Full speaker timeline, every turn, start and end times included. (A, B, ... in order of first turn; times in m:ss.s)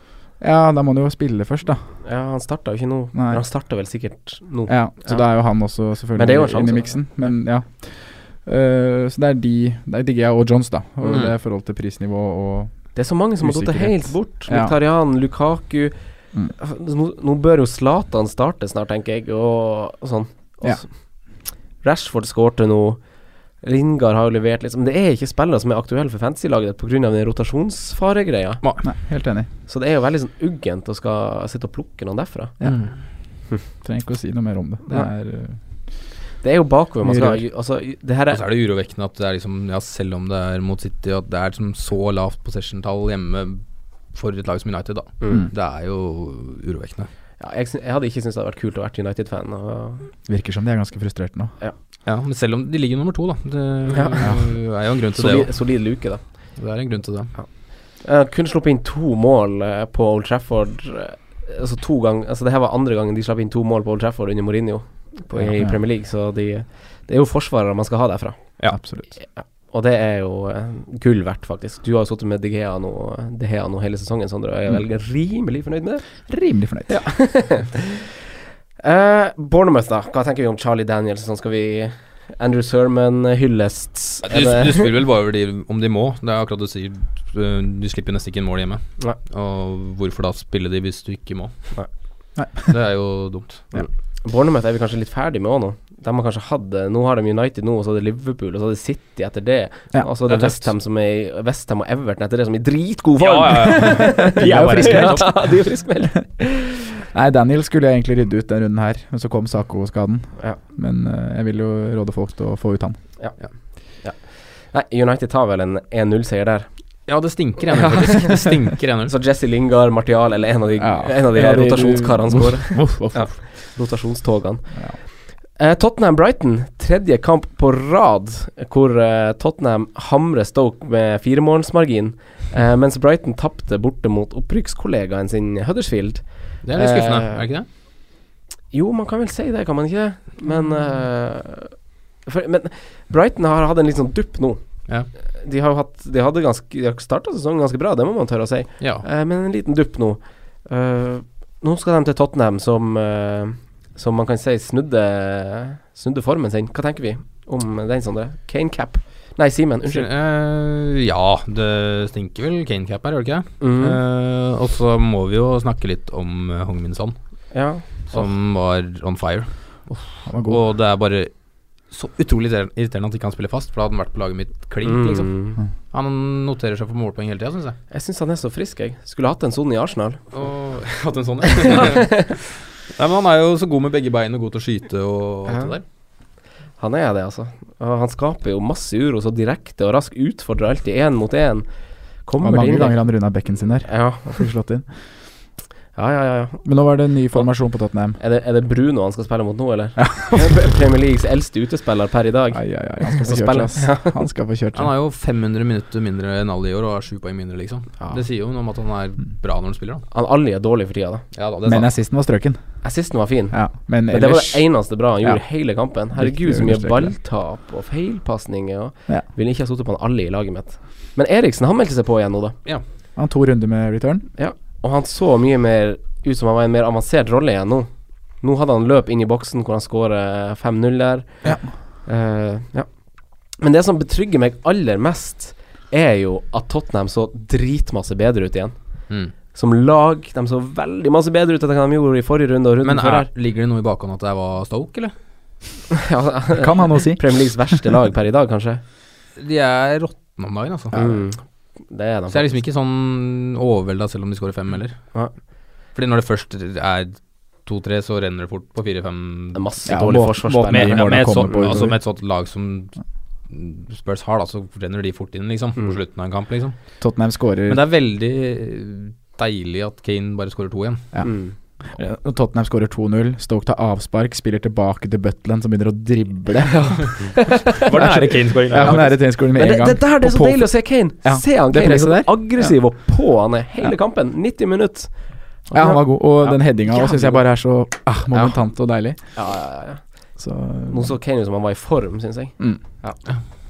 0:00.4-0:02.0 A
0:02.0-0:05.3 B
0:03.1-0:03.4 A
0:04.7-0:14.7 A
0:06.1-0:07.0 B
0:12.9-0:23.0 B
0:23.6-0:28.6 B
0:28.8-0:29.5 A
0:29.7-0:32.6 B
0:32.6-0:32.9 C
0:33.8-0:35.6 A
0:36.4-0:38.4 B
0:37.0-0:37.4 A
0:38.3-0:47.1 C
0:45.2-0:45.4 B
0:47.4-0:50.1 B
0:50.2-0:51.5 A
0:52.0-0:55.6 C
0:53.9-0:54.5 B
0:55.2-0:56.6 B
0:56.6-0:57.3 C
0:57.3-1:16.3 B
1:05.4-1:05.8 A
1:08.7-1:09.1 A
1:16.3-1:17.1 A
1:16.9-1:18.1 B
1:18.8-1:24.9 B
1:24.2-1:31.7 C
1:32.4-1:32.7 A
1:32.6-1:33.7 C
1:33.7-1:46.8 B
1:40.2-1:40.7 C
1:43.2-1:45.5 C
1:44.2-1:45.4 A
1:47.1-1:53.0 A
1:53.2-1:56.7 B
1:57.1-1:59.1 C
1:57.7-1:58.5 B
1:59.0-2:17.5 B
2:00.8-2:03.3 A
2:02.7-2:03.0 C
2:16.6-2:17.7 C
2:18.7-2:40.1 B
2:28.8-2:29.0 C
2:39.9-2:47.2 C
2:43.6-2:44.0 B
2:47.5-2:48.2 B
2:48.0-2:51.3 C
2:50.2-2:50.6 A
2:51.8-2:55.3 C
2:54.8-2:55.6 B
2:55.9-2:57.8 C
2:57.9-3:00.2 B
3:00.3-3:05.8 C
3:01.6-3:02.3 B
3:05.5-3:05.8 B
3:06.8-3:11.7 B
3:12.2-3:13.0 B
3:12.4-3:14.9 A
3:13.8-3:14.4 B
3:15.9-3:16.6 B
3:16.6-3:18.2 A
3:18.2-3:24.2 B
3:20.0-3:20.5 A
3:22.5-3:24.9 A
3:24.7-3:30.0 C
3:30.1-3:31.2 B
3:31.3-3:31.9 C
3:31.6-3:32.8 A
3:32.8-3:42.6 B
3:33.5-3:35.4 A
3:36.1-3:37.1 A
3:43.2-3:44.2 A
3:44.4-3:52.9 B
3:53.4-4:03.3 B
4:02.8-4:05.1 C
4:05.9-4:08.8 B
4:06.6-4:07.8 A
4:09.4-4:11.0 C
4:10.9-4:12.6 B
4:12.3-4:15.1 C
4:15.9-4:19.6 C
4:19.5-4:21.8 B
4:19.9-4:22.0 A
4:20.5-4:23.0 C
4:23.5-4:26.8 C
4:27.0-4:27.8 A
4:27.7-4:31.2 C
4:31.1-4:37.2 A
4:31.2-4:31.5 B
4:36.7-4:38.2 B
4:37.8-4:39.2 C
4:37.9-4:42.8 A
4:38.8-4:47.5 B
4:45.7-4:49.2 A
4:48.3-4:48.6 B
4:49.3-4:50.1 B
4:50.4-4:51.1 A
4:50.9-4:53.2 B